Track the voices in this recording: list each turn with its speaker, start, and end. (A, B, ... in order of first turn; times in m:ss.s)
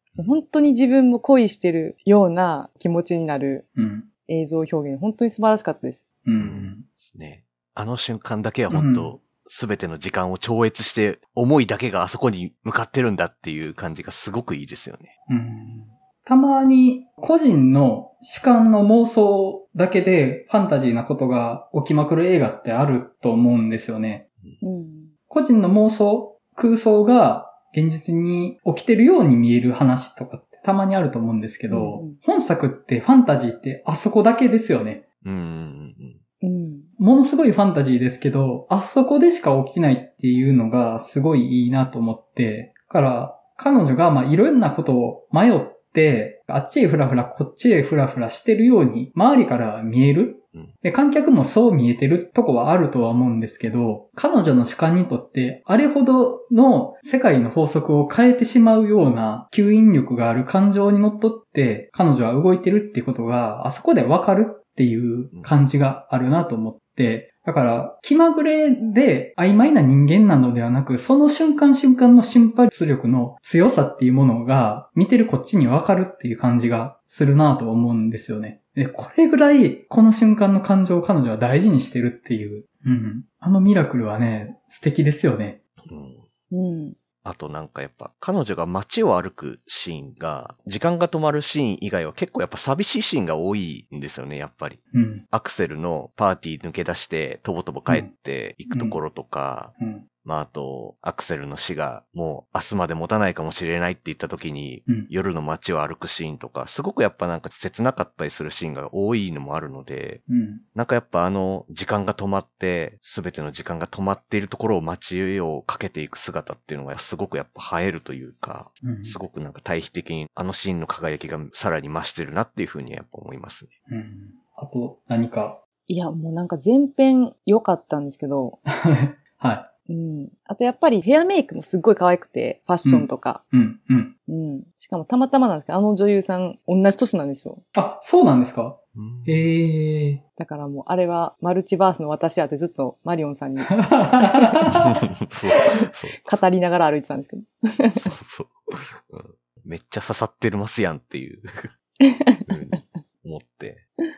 0:00.2-0:03.7 A
0:03.8-0:04.1 B
0:04.3-0:06.0 A
0:06.2-0:06.8 B
0:06.4-0:15.1 C
0:08.7-0:09.1 B
0:15.3-0:24.2 B
0:24.6-0:25.1 A
0:25.3-0:35.0 B
0:31.7-0:32.2 A
0:35.2-0:36.2 C
0:36.4-0:36.9 A
0:37.0-1:25.6 B
1:25.8-1:26.3 C
1:26.5-1:27.0 A
1:27.2-1:50.2 C
1:34.9-1:35.2 B
1:38.7-1:39.0 B
1:39.8-1:40.0 B
1:50.3-1:50.6 B
1:50.8-2:03.7 C
1:58.8-1:59.2 B
2:03.9-2:05.6 B
2:05.9-2:08.6 A
2:08.7-2:09.7 B
2:09.9-2:13.4 A
2:12.8-2:14.1 B
2:14.3-2:17.6 A
2:17.7-2:20.2 B
2:19.0-2:19.5 C
2:20.4-2:24.6 A
2:23.7-2:25.0 B
2:24.8-2:26.2 C
2:26.2-2:28.1 A
2:28.0-2:31.7 C
2:32.0-2:32.8 A
2:32.5-2:33.8 C